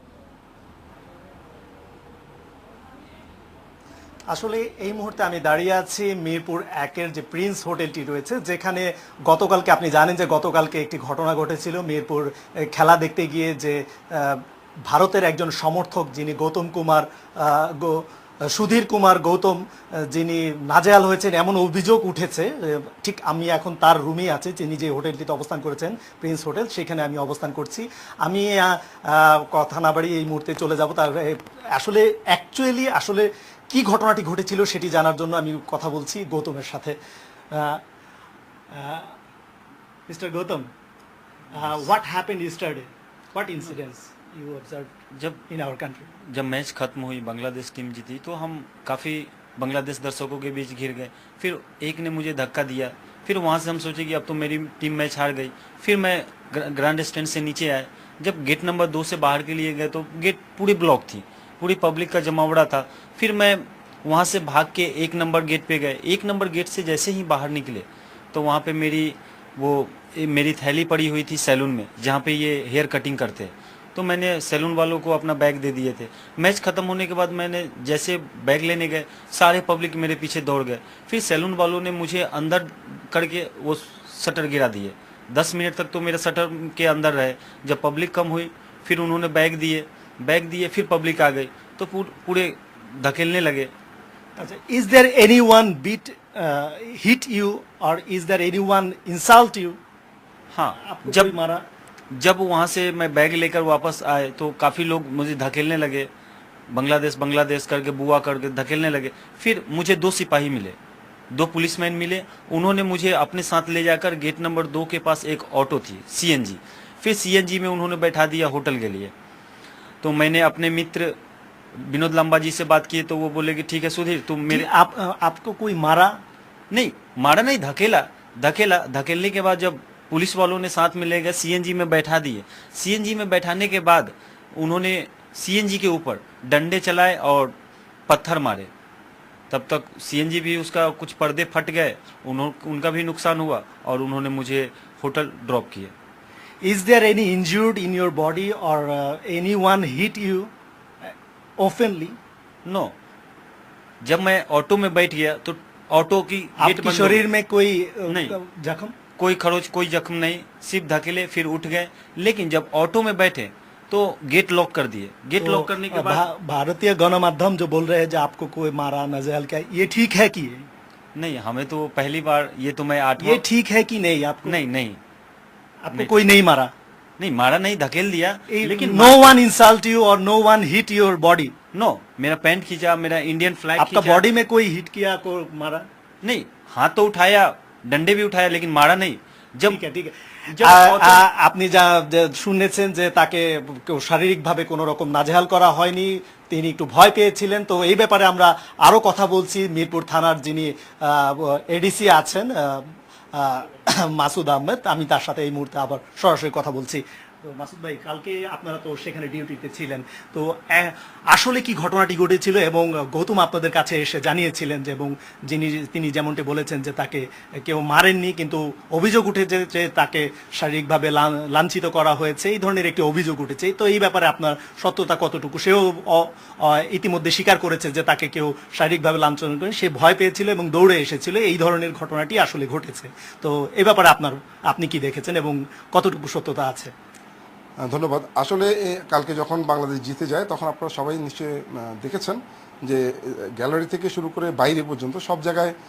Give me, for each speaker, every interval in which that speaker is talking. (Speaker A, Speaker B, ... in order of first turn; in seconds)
Speaker A: 4.3-37.0, 37.5-37.8, 38.7-39.1, 40.1-40.7, 41.5-44.9, 45.5-46.1, 94.4-99.8, 100.8-101.6, 124.5-126.2, 146.6-150.5, 151.0-152.2, 156.6-158.9, 165.4-170.7, 173.2-174.6, 175.8-176.7, 178.5-181.5, 183.8-185.8, 189.7-236.9
Speaker B: 45.1-45.4, 46.2-93.7, 100.5-101.3, 102.1-106.1, 106.7-110.8, 111.3-119.1, 120.0-121.2, 121.7-124.7, 126.7-137.5, 138.1-138.7, 139.5-145.9, 152.6-152.9, 154.0-157.2, 158.1-158.3, 159.2-166.2, 171.1-173.4, 174.4-175.0, 175.9-176.2, 177.2-179.3, 181.7-184.2, 186.2-189.8, 190.5-191.2
Speaker C: 237.8-245.7